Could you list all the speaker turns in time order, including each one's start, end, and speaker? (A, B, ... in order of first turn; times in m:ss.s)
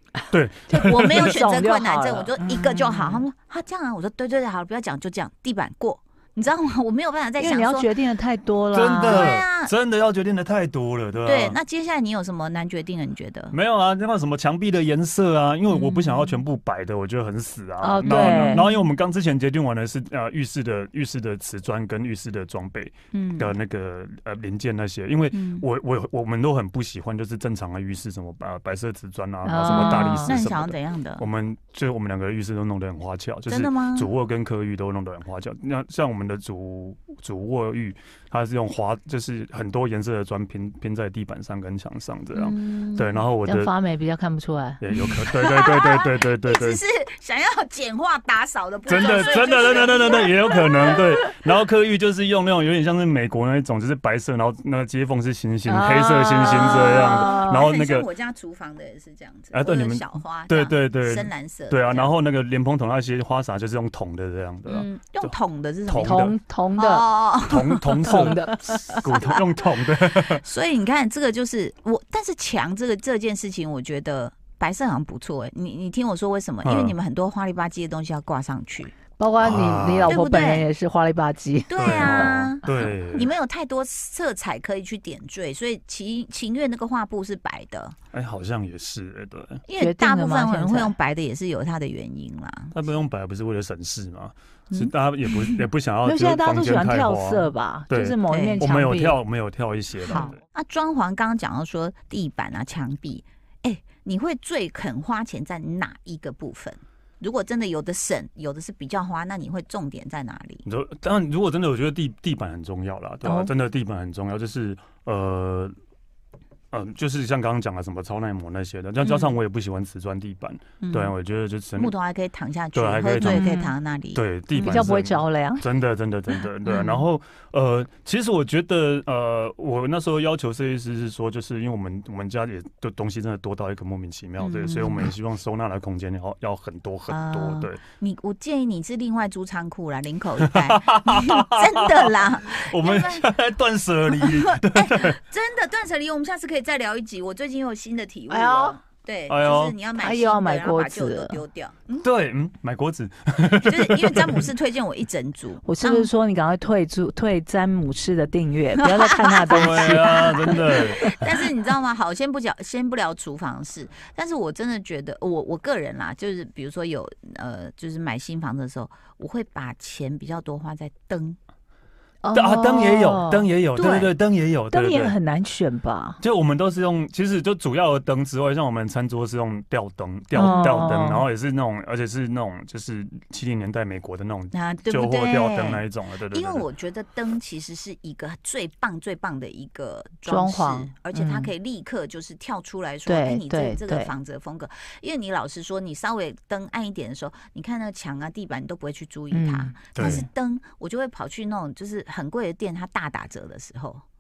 0:00.2-0:03.2 A
0:00.3-0:01.4 B
0:00.8-0:07.9 C
0:07.4-0:09.3 A
0:08.7-0:11.6 B
0:08.8-0:09.7 C
0:11.2-0:13.6 C
0:13.5-0:43.7 B
0:15.7-0:16.4 C
0:17.8-0:18.6 A
0:18.0-0:18.9 C
0:23.1-0:23.6 C
0:25.3-0:25.7 C
0:29.4-0:30.4 A
0:29.6-0:31.2 C
0:33.5-0:34.1 C
0:42.3-0:43.2 C
0:43.4-0:44.8 A
0:44.8-0:46.8 B
0:45.3-0:51.2 C
0:48.9-0:58.1 B
0:55.7-0:57.7 A
0:56.3-1:02.1 C
0:59.5-1:05.3 B
1:04.7-1:06.2 C
1:05.9-1:06.4 B
1:06.0-1:07.1 A
1:06.8-1:09.3 C
1:07.5-1:10.4 B
1:08.0-1:09.1 A
1:10.3-1:19.0 C
1:16.6-1:17.0 B
1:19.2-1:22.4 A
1:19.4-1:20.2 B
1:20.1-1:20.7 C
1:21.7-1:28.0 C
1:21.8-1:23.3 B
1:28.1-1:29.6 B
1:29.7-1:32.7 C
1:29.8-1:30.9 A
1:32.7-1:40.4 B
1:34.7-1:35.6 C
1:36.0-1:39.2 A
1:38.3-1:38.7 C
1:40.1-1:50.6 C
1:50.6-1:55.8 B
1:53.2-1:53.5 A
1:56.7-2:01.9 B
1:59.0-1:59.4 C
2:00.8-2:01.1 C
2:01.8-2:04.9 C
2:02.7-2:03.5 B
2:03.2-2:03.7 A
2:04.1-2:17.8 B
2:04.6-2:05.6 A
2:06.6-2:07.1 C
2:14.4-2:15.1 C
2:17.1-2:23.3 C
2:20.5-2:25.2 B
2:24.2-2:32.1 C
2:28.3-2:28.8 A
2:29.3-2:29.8 B
2:30.0-2:31.4 A
2:32.0-2:34.5 B
2:33.7-2:36.1 C
2:35.6-2:41.2 A
2:38.8-2:51.4 C
2:39.5-2:41.0 B
2:52.2-2:54.1 A
2:52.3-2:55.2 B
2:54.7-2:56.2 A
2:56.2-3:06.7 B
3:00.3-3:01.2 A
3:00.4-3:00.9 C
3:04.5-3:24.0 C
3:10.3-3:11.5 A
3:13.1-3:14.1 A
3:19.3-3:20.2 A
3:20.0-3:20.2 B